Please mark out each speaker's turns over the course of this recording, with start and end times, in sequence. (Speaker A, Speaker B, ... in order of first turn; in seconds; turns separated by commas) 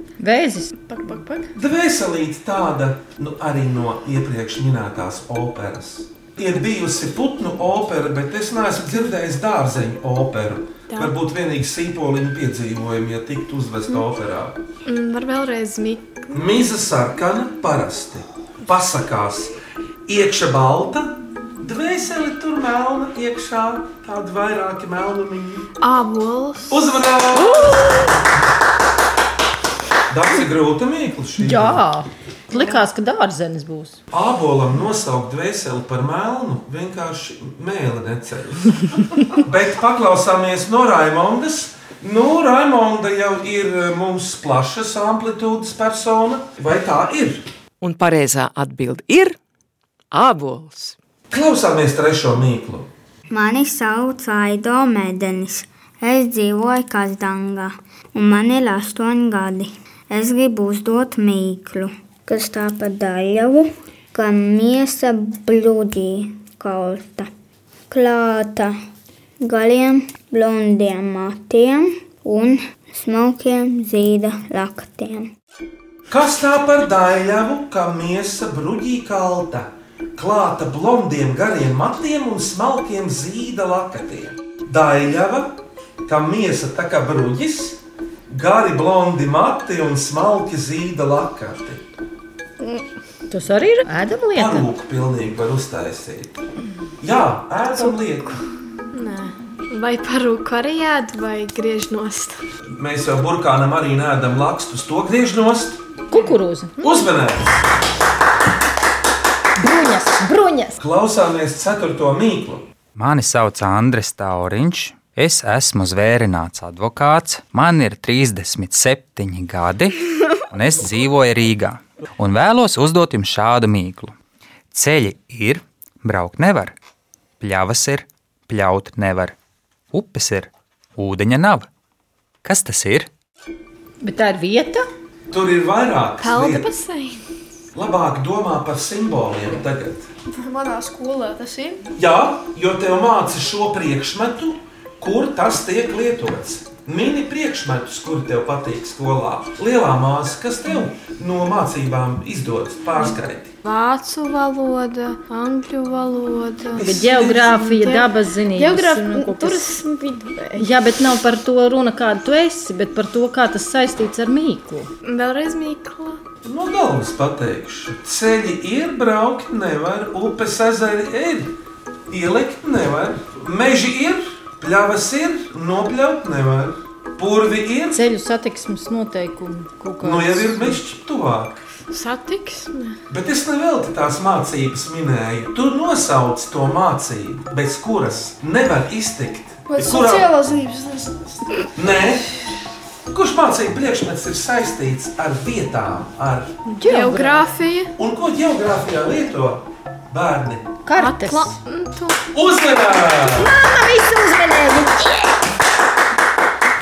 Speaker A: 0.2-0.9, Speaker B: 0.9-1.5, Speaker C: 1.6-14.6, Speaker B: 14.9-16.3, Speaker C: 16.3-19.6, Speaker C: 20.1-25.7, Speaker B: 25.8-27.6, Speaker C: 26.7-28.1, Speaker C: 30.1-31.8, Speaker A: 31.4-34.0, Speaker C: 34.1-47.5, Speaker D: 47.8-49.4, Speaker D: 50.1-51.0, Speaker C: 51.3-52.9, Speaker E: 53.3-67.3, Speaker E: 67.9-68.8, Speaker E: 69.4-75.3, Speaker C: 76.1-85.5, Speaker C: 86.1-91.8, Speaker A: 93.3-94.7, Speaker C: 94.3-96.4, Speaker C: 97.0-98.4, Speaker B: 98.9-102.4, Speaker C: 102.7-105.8, Speaker A: 106.1-106.8, Speaker C: 106.8-107.6, Speaker A: 109.6-110.8, Speaker C: 110.8-112.7, Speaker F: 113.0-124.1, Speaker F: 124.7-126.7, Speaker F: 127.4-129.3, Speaker F: 129.9-131.7, Speaker F: 132.4-133.1, Speaker A: 134.0-134.9, Speaker C: 135.3-136.7, Speaker B: 136.2-137.2, Speaker C: 137.7-140.1, Speaker G: 140.3-141.8, Speaker C: 142.0-153.5, Speaker B: 153.7-160.7, Speaker C: 156.8-157.4, Speaker A: 156.8-159.7, Speaker A: 160.6-164.9, Speaker B: 165.0-166.2, Speaker C: 166.4-171.5, Speaker C: 172.1-178.0, Speaker A: 177.9-180.8, Speaker C: 180.0-181.5, Speaker B: 181.9-183.0, Speaker C: 183.1-190.3, Speaker G: 189.7-191.7, Speaker C: 191.8-192.3, Speaker C: 193.1-196.5, Speaker A: 196.7-197.5, Speaker B: 196.8-197.9, Speaker C: 198.0-200.7, Speaker A: 200.9-201.6, Speaker B: 200.9-202.2, Speaker C: 202.3-203.5, Speaker A: 203.3-205.1